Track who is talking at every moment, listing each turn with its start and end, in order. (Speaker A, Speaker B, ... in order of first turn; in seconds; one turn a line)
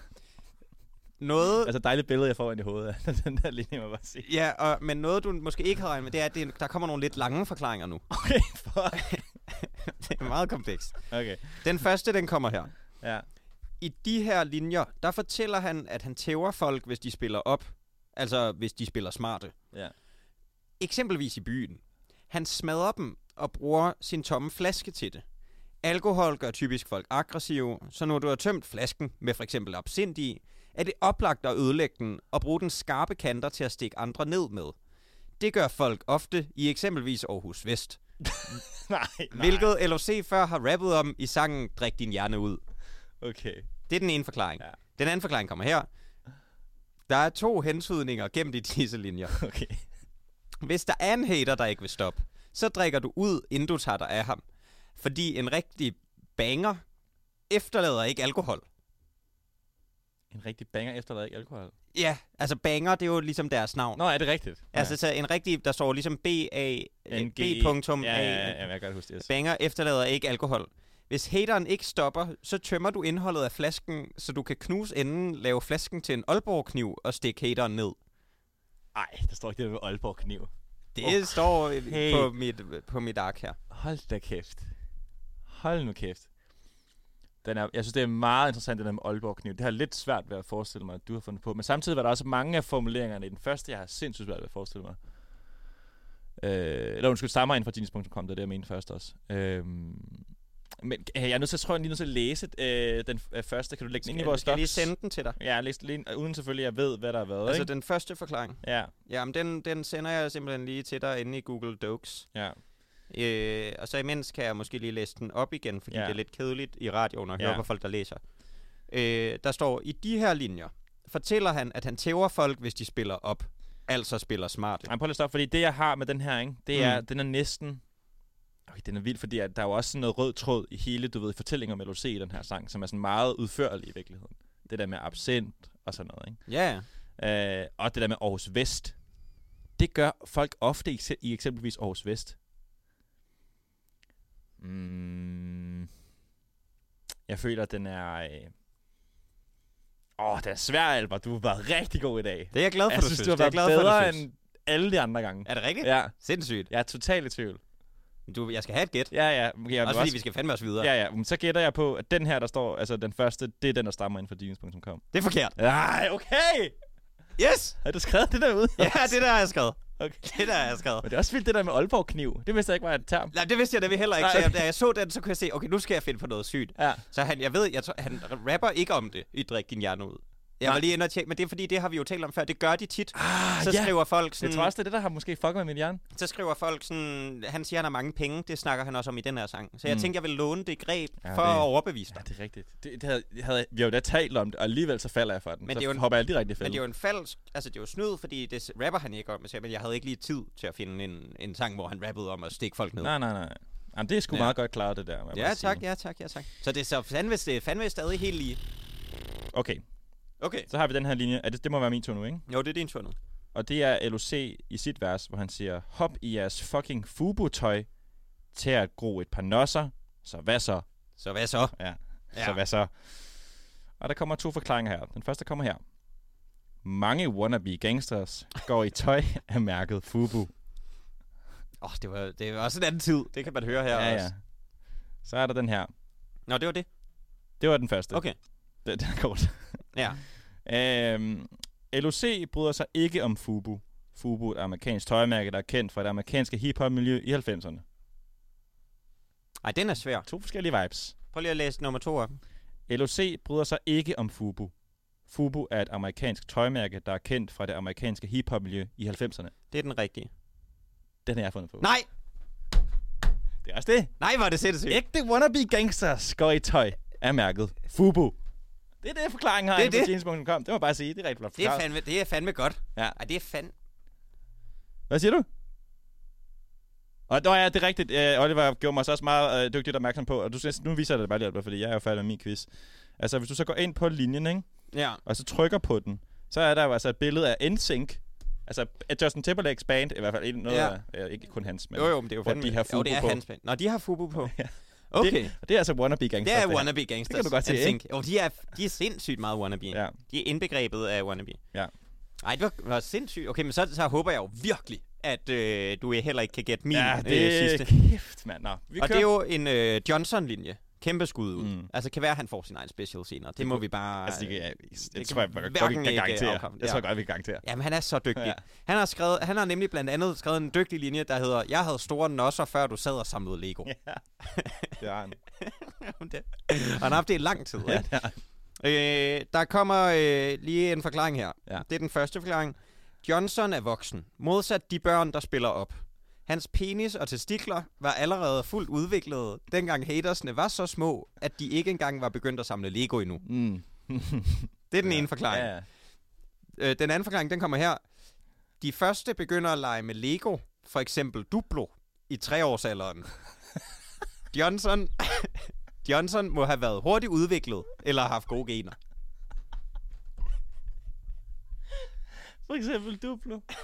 Speaker A: 1.2-1.7
Speaker B: 1.6-4.3
Speaker A: 4.2-8.1
Speaker B: 8.1-9.2
Speaker A: 9.0-12.7
Speaker B: 11.1-11.7
Speaker A: 13.8-19.5
Speaker A: 20.8-25.2
Speaker A: 25.8-34.8
Speaker A: 35.4-38.0
Speaker B: 38.2-39.7
Speaker A: 39.3-42.6
Speaker B: 43.2-43.7
Speaker A: 43.9-45.9
Speaker A: 47.1-49.4
Speaker B: 49.3-49.8
Speaker A: 50.6-54.4
Speaker A: 55.0-56.8
Speaker A: 57.5-58.6
Speaker B: 60.3-61.7
Speaker A: 61.9-64.0
Speaker B: 64.0-64.9
Speaker A: 64.7-68.6
Speaker B: 67.1-69.3
Speaker A: 69.2-78.0
Speaker B: 78.9-80.5
Speaker A: 80.9-83.6
Speaker B: 81.0-82.3
Speaker B: 83.7-84.7
Speaker B: 85.5-86.3
Speaker B: 87.4-95.0
Speaker B: 96.4-100.3
Speaker B: 100.8-107.7
Speaker A: 104.0-105.4
Speaker A: 107.5-112.3
Speaker B: 108.6-108.9
Speaker A: 113.1-118.2
Speaker B: 115.9-116.2
Speaker B: 117.4-117.6
Speaker A: 118.9-124.9
Speaker B: 124.8-127.8
Speaker A: 126.7-127.0
Speaker B: 128.7-136.5
Speaker A: 136.5-136.8
Speaker B: 137.2-138.9
Speaker B: 139.8-142.4
Speaker B: 144.6-145.9
Speaker B: 147.3-148.5
Speaker B: 150.2-156.1
Speaker A: 152.5-154.2
Speaker A: 155.4-156.7
Speaker B: 156.7-157.6
Speaker A: 158.3-159.1
Speaker B: 159.1-160.2
Speaker A: 159.8-160.9
Speaker B: 160.8-165.0
Speaker A: 165.1-165.6
Speaker B: 165.6-166.8
Speaker A: 167.4-167.8
Speaker B: 167.8-169.2
Speaker A: 168.8-171.1
Speaker B: 170.0-173.3
Speaker A: 173.3-184.7
Speaker B: 174.2-174.6
Speaker B: 176.8-177.0
Speaker B: 183.1-186.0
Speaker A: 186.1-192.2
Speaker B: 189.8-190.1
Speaker B: 191.2-196.8
Speaker A: 195.7-203.1
Speaker B: 203.0-205.8
Speaker A: 204.3-204.5
Speaker A: 205.3-208.6
Speaker B: 209.5-209.8
Speaker A: 210.4-210.7
Speaker B: 210.7-212.4
Speaker A: 212.5-213.2
Speaker B: 213.5-217.9
Speaker B: 218.5-220.8
Speaker A: 221.2-221.7
Speaker B: 221.7-223.2
Speaker A: 222.3-222.6
Speaker B: 224.0-225.8
Speaker B: 226.8-230.5
Speaker A: 231.8-234.3
Speaker B: 233.9-234.4
Speaker B: 235.2-235.9
Speaker A: 236.5-236.9
Speaker B: 237.6-238.3
Speaker B: 238.8-239.8
Speaker A: 239.9-240.2
Speaker B: 240.6-247.8
Speaker A: 249.6-250.3
Speaker B: 250.2-251.1
Speaker A: 251.3-252.4
Speaker B: 252.9-254.7
Speaker B: 255.3-259.5
Speaker A: 259.7-260.3
Speaker B: 261.2-261.9
Speaker A: 261.8-262.1
Speaker B: 263.6-264.1
Speaker A: 264.2-265.0
Speaker B: 264.9-268.4
Speaker B: 269.0-271.8
Speaker A: 269.7-270.1
Speaker A: 271.6-273.7
Speaker B: 275.1-275.5
Speaker B: 277.3-282.7
Speaker B: 283.2-284.7
Speaker A: 284.9-285.2
Speaker B: 285.2-293.4
Speaker A: 290.7-290.9
Speaker A: 291.9-294.6
Speaker B: 294.4-298.0
Speaker A: 295.1-295.5
Speaker A: 296.4-301.6
Speaker B: 299.9-300.1
Speaker A: 302.4-307.9
Speaker B: 306.9-309.3
Speaker A: 309.0-317.1
Speaker B: 311.6-311.9
Speaker B: 313.6-317.6
Speaker A: 317.6-323.9
Speaker B: 323.8-324.2
Speaker A: 324.4-324.9
Speaker B: 325.0-325.4
Speaker A: 325.6-328.1
Speaker B: 327.9-328.4
Speaker A: 328.8-343.4
Speaker B: 343.4-345.8
Speaker A: 344.9-345.8
Speaker A: 346.8-348.0
Speaker A: 348.8-353.3
Speaker A: 354.5-358.9
Speaker B: 362.6-363.6